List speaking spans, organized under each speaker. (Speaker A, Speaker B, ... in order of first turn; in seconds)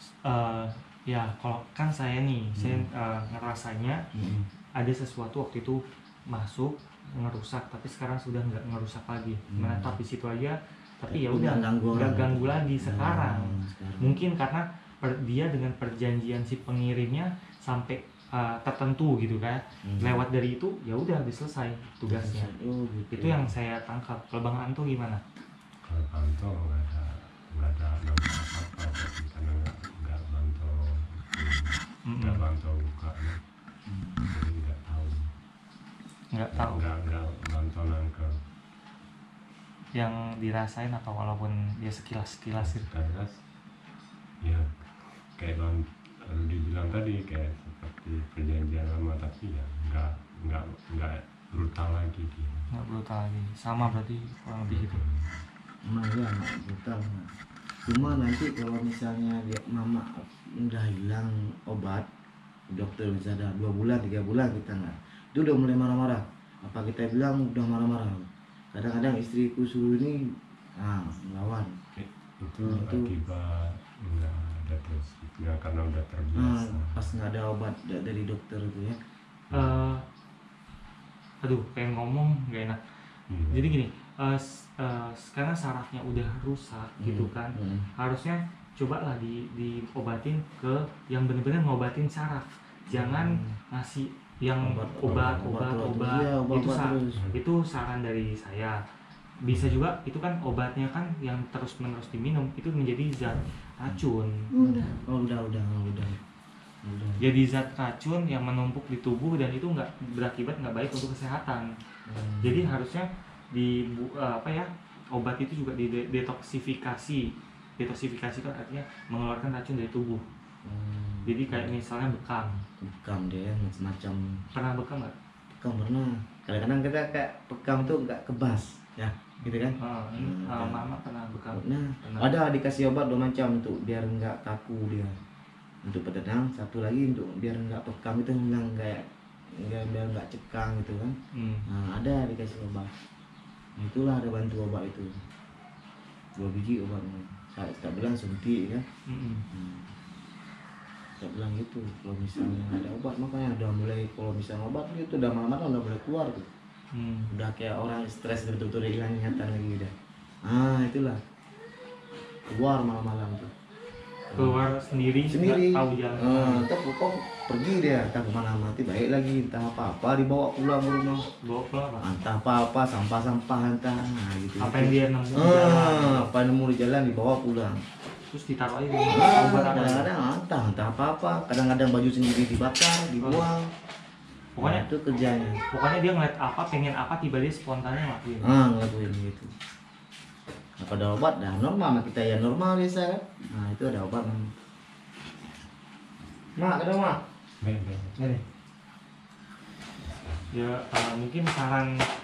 Speaker A: 0.2-4.0, 4.8-22.5, 23.1-25.2, 32.1-32.4, 36.3-36.8, 39.9-42.9, 52.7-55.0, 79.5-80.0, 81.4-82.8, 83.5-98.8, 99.4-104.3, 107.2-111.7, 112.4-117.2, 117.8-120.2, 121.3-122.6, 124.5-125.1, 129.8-132.3, 141.3-141.6, 149.1-149.4, 156.9-157.3, 164.3-166.7, 171.4-172.1, 174.6-176.2, 178.3-180.1, 183.2-183.4, 184.6-184.8, 185.7-188.5, 200.5-201.9
Speaker B: 2.6-2.8, 4.1-4.4, 9.5-10.0, 11.1-14.2, 19.8-20.2, 22.1-23.5, 33.9-34.2, 55.9-57.3, 57.9-62.1, 62.7-70.2, 70.8-71.7, 72.7-73.1, 76.3-79.0, 87.0-87.9, 92.9-93.4, 94.6-97.2, 104.6-106.2, 106.8-107.2, 112.1-112.7, 120.6-121.7, 122.8-124.2, 125.6-130.8, 131.5-135.1, 135.8-139.0, 139.6-141.2, 141.7-142.9, 143.8-145.1, 146.4-148.8, 149.5-149.9, 151.2-156.4, 157.3-159.9, 160.4-161.2, 162.5-163.5, 164.3-164.6, 165.3-171.3, 172.0-177.8, 179.1-183.7, 184.6-185.6, 188.4-189.5, 190.8-194.5, 196.6-197.2, 198.2-198.4
Speaker C: 25.8-33.4, 34.3-35.2, 36.5-38.4, 42.6-43.4, 44.4-52.7, 54.7-55.4, 71.9-77.2, 79.5-79.8, 83.3-83.8, 95.0-95.5, 99.5-99.8, 197.6-198.3, 200.0-200.5